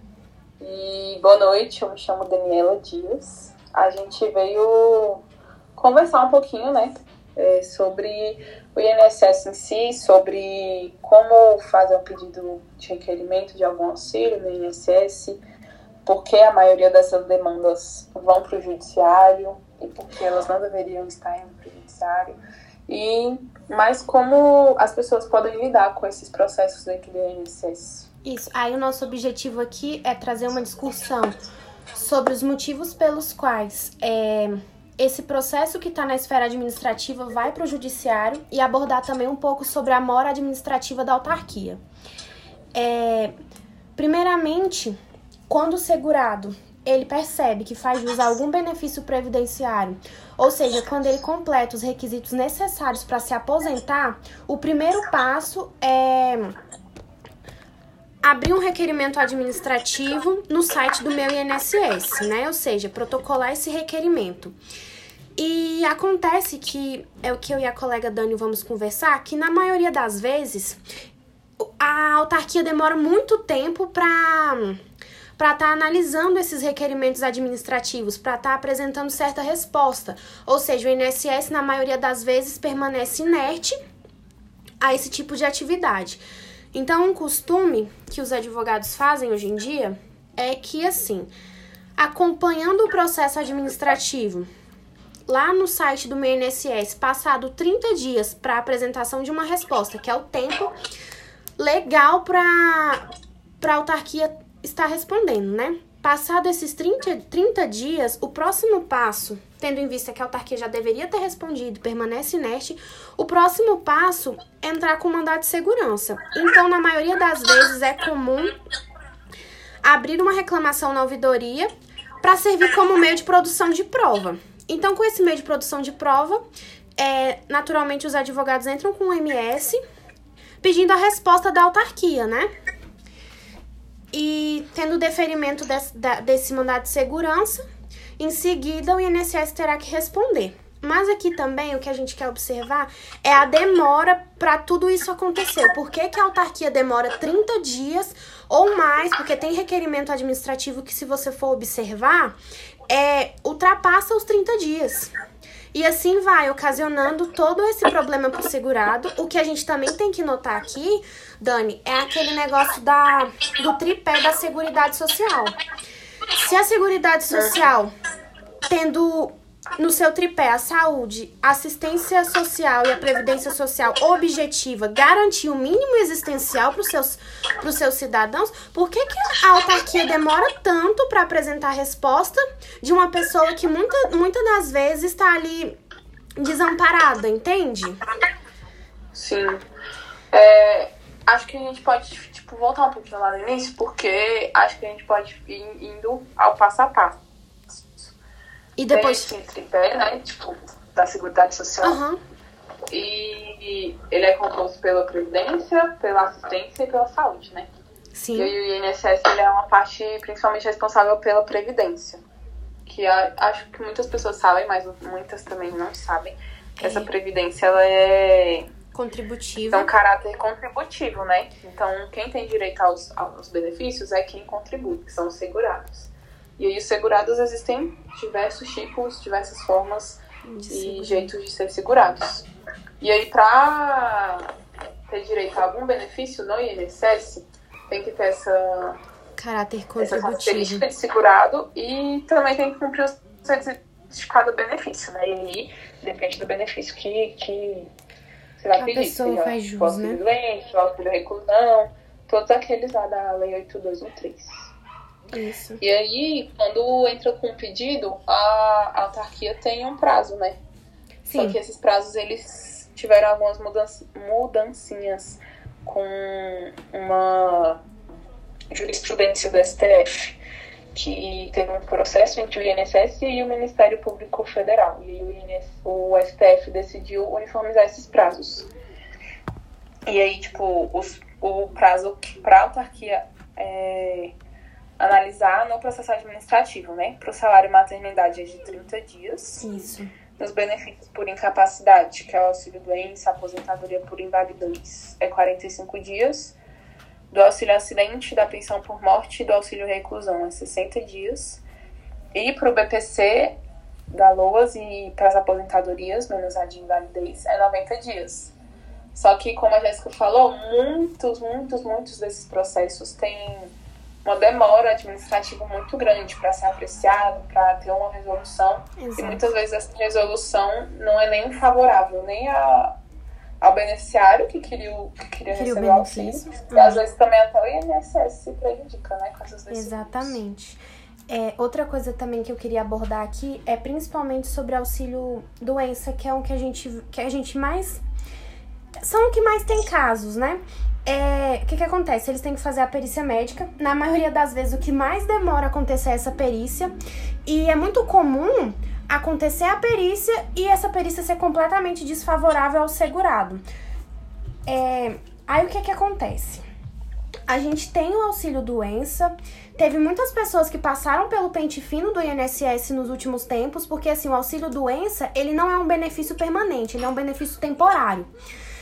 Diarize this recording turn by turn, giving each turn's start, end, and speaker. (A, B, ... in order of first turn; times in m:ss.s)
0:00.6-0:05.2 A
0:05.8-0:15.4 A
0:16.0-0:22.4 A
0:22.9-0:28.1 A
0:28.2-0:31.4 B
0:31.9-0:41.8 B
0:42.8-0:43.3 B
0:44.0-0:45.0 B
0:45.5-0:56.6 B
0:58.2-1:04.6 B
1:05.4-1:10.8 B
1:11.6-1:14.8 B
1:15.4-1:23.8 B
1:24.8-1:26.2 B
1:26.7-1:31.3 B
1:32.0-1:34.5 B
1:35.3-1:40.7 B
1:41.6-1:43.0 B
1:43.6-1:58.5 B
1:59.8-2:01.7 B
2:02.2-2:06.4 B
2:07.0-2:09.8 B
2:10.6-2:12.5 B
2:14.1-2:17.6 B
2:18.2-2:32.4 B
2:32.9-2:35.1 B
2:35.7-2:45.5 B
2:46.4-2:47.9 B
2:47.3-2:47.6 A
2:48.7-3:05.8 B
3:06.4-3:08.0 B
3:09.1-3:09.6 A
3:10.3-3:17.2 A
3:17.7-3:18.2 A
3:18.8-3:19.3 B
3:18.9-3:22.0 A
3:21.8-3:22.2 B
3:22.9-3:27.7 A
3:28.2-3:28.5 B
3:28.3-3:32.2 A
3:32.9-3:38.7 A
3:36.8-3:37.1 B
3:38.9-3:39.9 B
3:39.7-3:52.5 A
3:50.5-3:51.3 B
3:53.0-3:54.5 A
3:55.1-3:59.0 A
3:59.4-4:00.8 B
4:00.0-4:07.9 A
4:08.6-4:14.7 A
4:08.8-4:10.2 B
4:15.3-4:15.8 B
4:15.8-4:20.6 A
4:21.2-4:21.6 B
4:21.3-4:27.8 A
4:28.7-4:30.4 A
4:30.9-4:38.7 A
4:40.1-4:44.4 A
4:45.0-4:49.6 A
4:49.6-4:50.1 B
4:50.4-4:56.6 A
4:57.3-5:01.6 A
5:02.3-5:03.6 A
5:04.1-5:08.5 A
5:09.1-5:13.7 A
5:14.2-5:23.0 A
5:19.0-5:19.4 B
5:23.6-5:30.4 A
5:25.5-5:27.0 B
5:29.7-5:38.0 B
5:39.0-5:46.9 B
5:47.5-5:53.6 B
5:54.7-5:56.6 B
5:57.5-6:08.3 B